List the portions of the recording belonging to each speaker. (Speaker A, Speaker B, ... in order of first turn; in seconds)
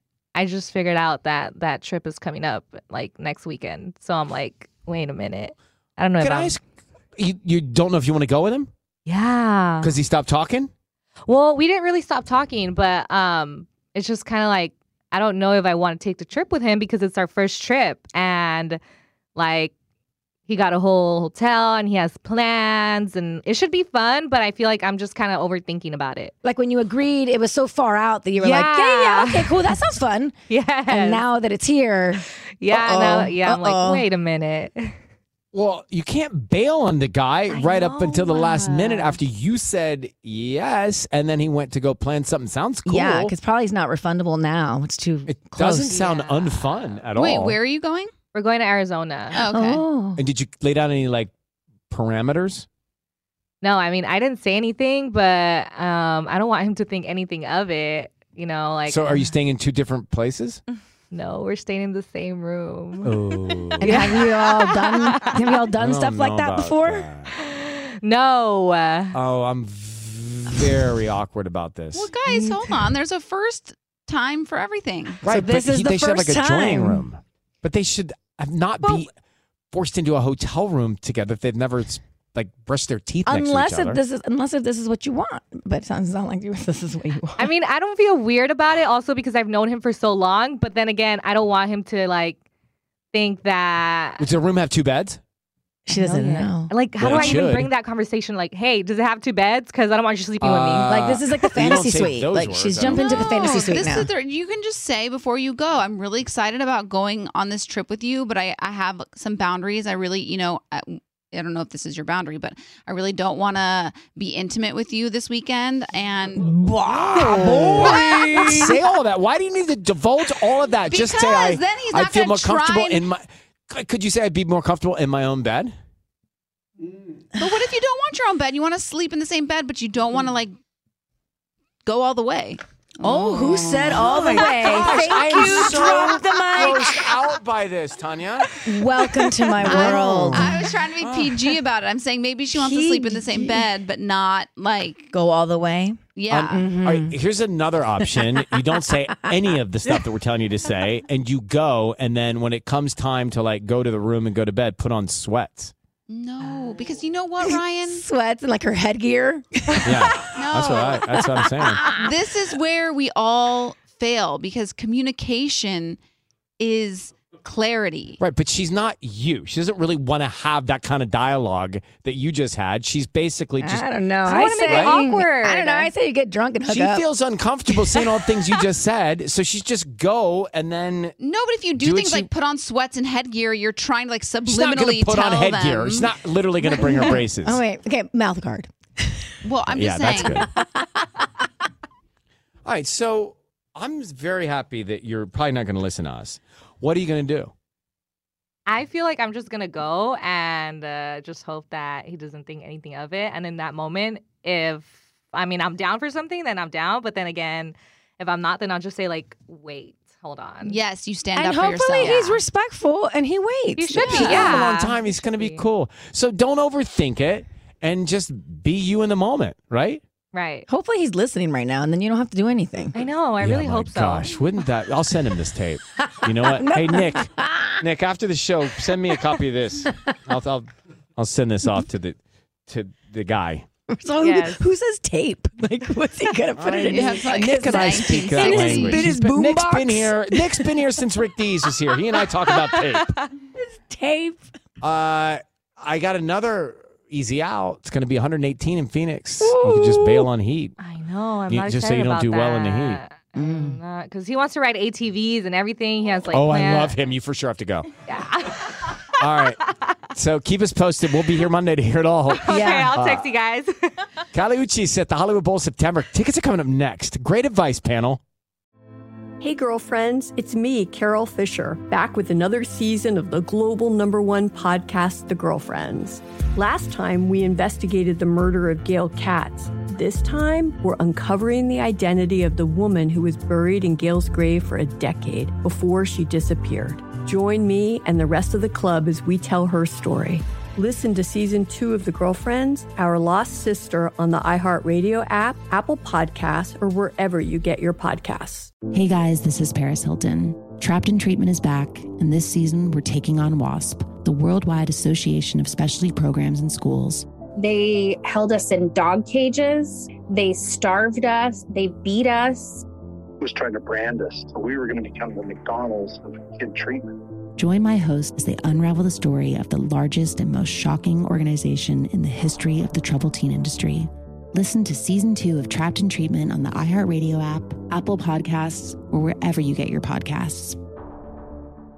Speaker A: 0.3-6.6, 9.1-9.9, 11.3-18.8, 19.4-19.7, 20.5-26.3, 28.4-29.7, 30.5-31.2, 32.3-35.0, 37.5-39.2, 46.1-46.8, 48.3-49.4, 53.6-59.3, 61.1-63.1, 63.9-65.6, 67.3-69.1, 87.4-92.4, 93.1-94.3, 95.9-100.9, 174.2-175.9, 198.7-210.8, 213.8-215.7, 220.3-220.7, 222.9-224.3, 234.2-234.6, 242.5-243.2, 250.8-257.0, 258.1-259.9, 262.3-264.1
Speaker B: 6.2-6.6, 7.2-8.7, 9.8-10.7, 35.5-43.4, 45.3-47.6, 50.2-51.3, 51.9-52.7, 58.9-60.6, 63.0-64.0, 65.7-67.3, 69.1-72.1, 75.2-79.1, 79.7-84.0, 94.2-95.2, 97.0-97.7, 100.4-103.2, 116.6-125.7, 133.7-141.4, 146.3-155.7, 159.8-161.9, 168.2-173.9, 174.6-175.0, 176.7-181.2, 181.8-182.3, 184.4-187.6, 189.7-190.5, 192.7-197.5, 214.3-220.0, 223.4-233.7, 236.6-243.2, 244.8-250.8, 251.5-253.0, 256.3-257.9, 259.2-259.6, 260.1-263.3, 264.3-268.2
Speaker C: 26.4-34.1, 42.8-46.8, 49.3-50.2, 63.8-67.1, 75.2-77.1, 83.2-87.5, 95.9-96.8, 100.9-104.1, 116.6-118.8, 133.0-137.2, 138.6-140.7, 142.5-143.7, 145.1-146.0, 146.6-147.2, 148.0-150.0, 157.4-160.5, 161.2-162.1, 173.6-177.1, 177.7-178.7, 186.6-189.4, 190.2-191.3, 211.3-214.8, 220.7-223.0, 226.0-227.8, 228.9-230.1, 233.9-240.7, 243.6-244.4, 249.4-250.3, 253.4-253.8, 262.6-262.8
Speaker D: 47.1-48.1, 49.3-49.9, 71.9-75.2, 102.8-116.5, 117.7-118.2, 120.9-123.1, 127.4-130.6, 131.9-133.6, 135.3-135.7, 139.6-145.1, 146.2-146.7, 156.1-158.0, 160.3-166.0, 166.6-168.2, 181.2-186.2, 189.4-190.4, 210.6-212.4, 214.0-214.8, 236.9-239.1
Speaker E: 269.4-298.7
Speaker F: 298.9-307.3, 317.6-330.8
Speaker G: 307.6-312.9
Speaker H: 313.4-317.2